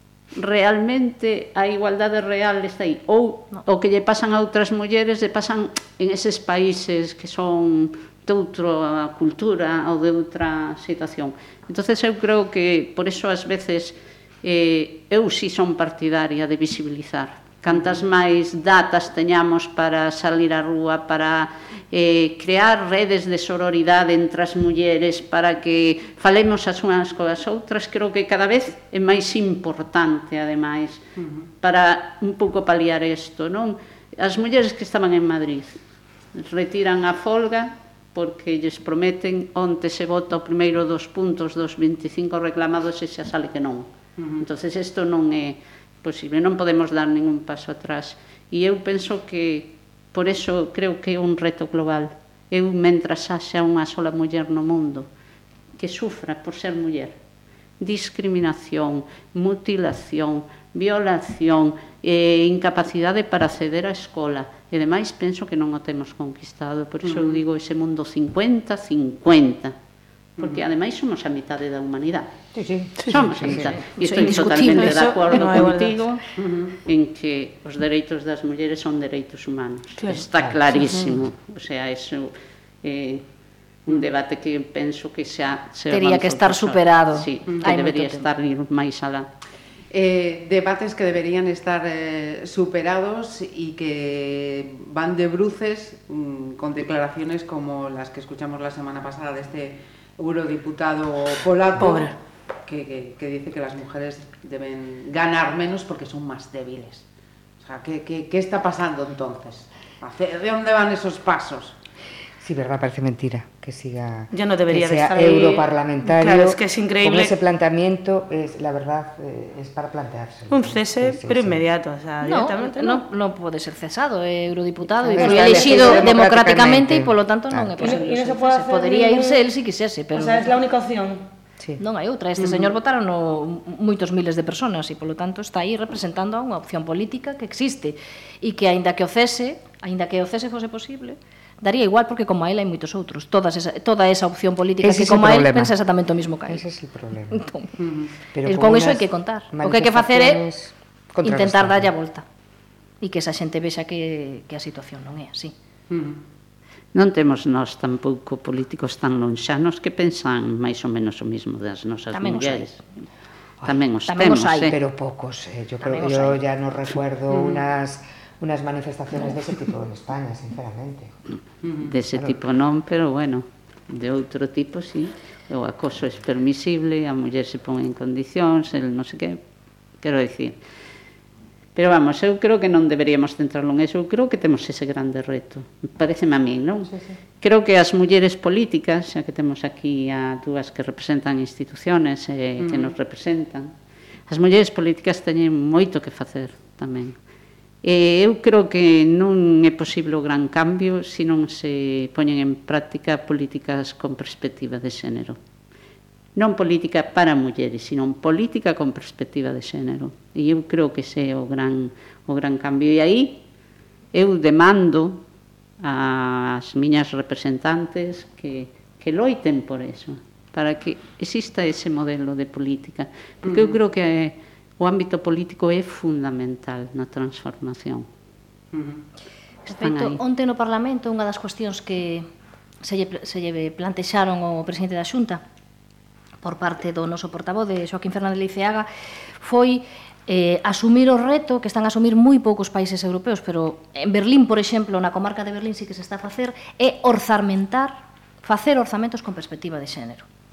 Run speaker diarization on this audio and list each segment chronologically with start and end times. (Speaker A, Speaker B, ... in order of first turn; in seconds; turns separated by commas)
Speaker A: 0.3-35.8, Speaker B: 31.2-31.4, Speaker A: 36.3-43.9, Speaker B: 44.2-44.4, Speaker A: 44.4-55.1, Speaker A: 55.8-57.1, Speaker A: 57.8-69.8, Speaker B: 67.0-67.4, Speaker B: 70.4-70.6, Speaker A: 70.4-72.3, Speaker C: 72.5-73.7, Speaker D: 73.0-73.3, Speaker A: 73.1-76.2, Speaker E: 73.5-75.1, Speaker D: 74.6-76.0, Speaker B: 76.4-76.8, Speaker A: 76.8-83.2, Speaker D: 80.0-80.2, Speaker A: 83.9-89.3, Speaker E: 85.9-88.3, Speaker B: 89.9-107.0, Speaker D: 101.8-102.1, Speaker B: 107.6-111.8, Speaker C: 112.4-121.6, Speaker D: 114.3-117.3, Speaker D: 120.5-123.0, Speaker E: 122.2-130.5, Speaker C: 125.0-128.0, Speaker D: 125.2-126.1, Speaker D: 127.8-129.4, Speaker D: 130.1-131.3, Speaker E: 131.8-146.6, Speaker B: 132.4-132.7, Speaker C: 144.8-145.8, Speaker C: 146.5-147.4, Speaker E: 147.3-147.7, Speaker B: 147.8-148.1, Speaker C: 148.3-151.9, Speaker E: 148.4-150.4, Speaker E: 151.2-152.2, Speaker E: 153.0-155.5, Speaker B: 155.9-156.2, Speaker A: 156.9-162.8, Speaker E: 162.1-162.8, Speaker A: 163.6-164.8, Speaker E: 164.1-164.8, Speaker C: 164.6-171.1, Speaker E: 165.8-166.4, Speaker B: 167.3-167.6, Speaker B: 171.6-171.9, Speaker A: 171.8-179.4, Speaker A: 180.0-180.6, Speaker A: 181.8-193.7, Speaker B: 192.6-192.9, Speaker A: 194.3-197.2, Speaker A: 197.8-205.4, Speaker A: 206.4-213.4, Speaker A: 214.1-215.2, Speaker A: 215.8-228.1, Speaker B: 223.4-223.8, Speaker B: 228.7-229.0, Speaker E: 229.7-232.3, Speaker A: 229.7-230.2, Speaker E: 232.8-235.4, Speaker E: 236.4-238.9, Speaker E: 239.4-250.3